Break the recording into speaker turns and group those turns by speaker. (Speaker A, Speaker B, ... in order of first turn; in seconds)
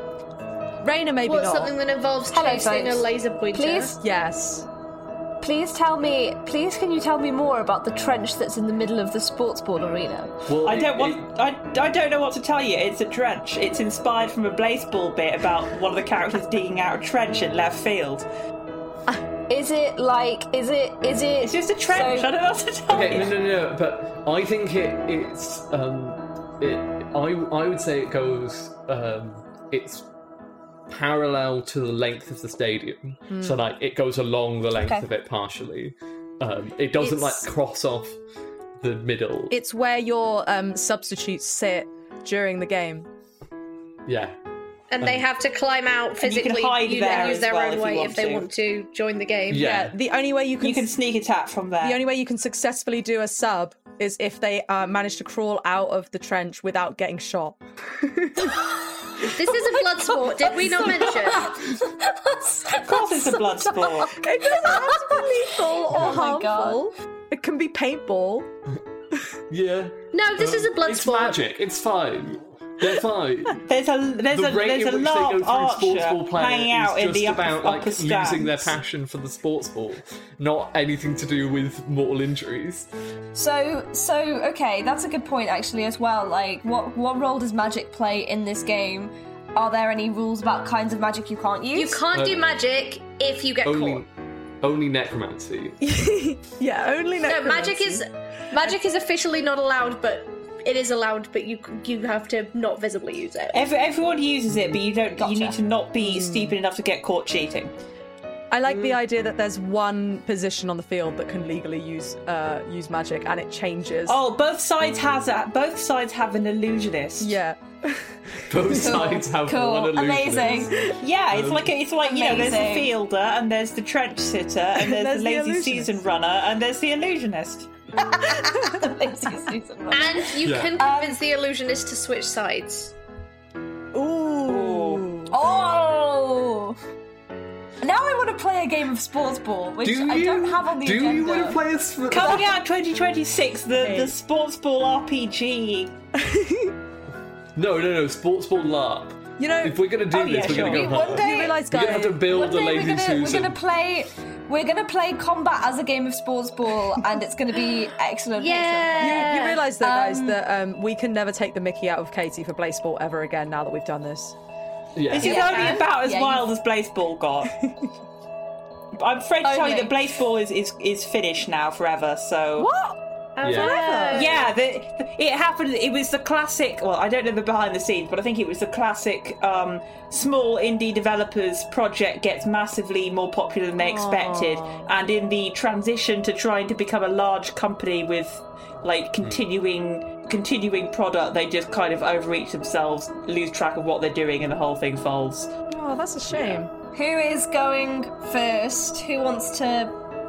Speaker A: 0.8-1.7, 4.0-4.7, 33.3-33.6, 37.0-37.5, 39.5-43.1, 49.5-50.9, 51.8-58.6, 64.1-68.5, 95.8-98.0, 106.0-106.6, 108.5-114.2, 117.2-119.2, 124.8-126.0, 128.4-128.8, 133.9-135.3, 143.8-144.2, 146.2-146.8, 149.4-149.8, 151.1-152.2, 159.0-164.4, 172.6-173.0, 173.5-174.3, 183.8-184.9, 195.7-196.7
Speaker B: 1.2-4.0, 44.9-49.7, 59.2-61.6, 70.1-71.4, 91.8-94.0, 97.2-103.6, 129.9-132.9, 158.4-159.6, 165.4-165.8, 173.4-174.5
Speaker C: 2.3-4.0, 5.4-10.3, 19.5-22.3, 34.8-35.0, 59.2-66.8, 83.3-92.0, 105.2-105.6, 118.7-120.8, 122.0-122.9, 128.0-131.2, 135.3-136.8, 137.8-141.6, 142.2-142.4, 150.4-160.4, 165.2-166.5, 169.4-170.0, 196.9-199.9
Speaker D: 10.5-11.2, 22.9-30.1, 30.9-38.2, 38.8-39.5, 44.1-44.4, 45.0-45.2, 49.5-50.0, 65.9-66.2, 69.5-73.6, 74.3-82.9, 92.1-92.5, 93.6-94.1, 94.6-95.8, 118.5-121.8, 130.4-130.8, 139.8-142.6, 147.6-153.6, 164.9-165.6, 173.4-173.8, 196.3-196.7
Speaker E: 10.6-18.3, 21.4-23.4, 46.2-48.5, 50.6-52.0, 62.8-64.2, 73.7-78.8, 103.5-107.7, 108.7-109.0, 114.1-117.4, 121.0-127.7, 134.5-135.0, 142.1-145.9, 150.1-151.1, 165.1-167.6, 168.9-172.7, 174.1-195.5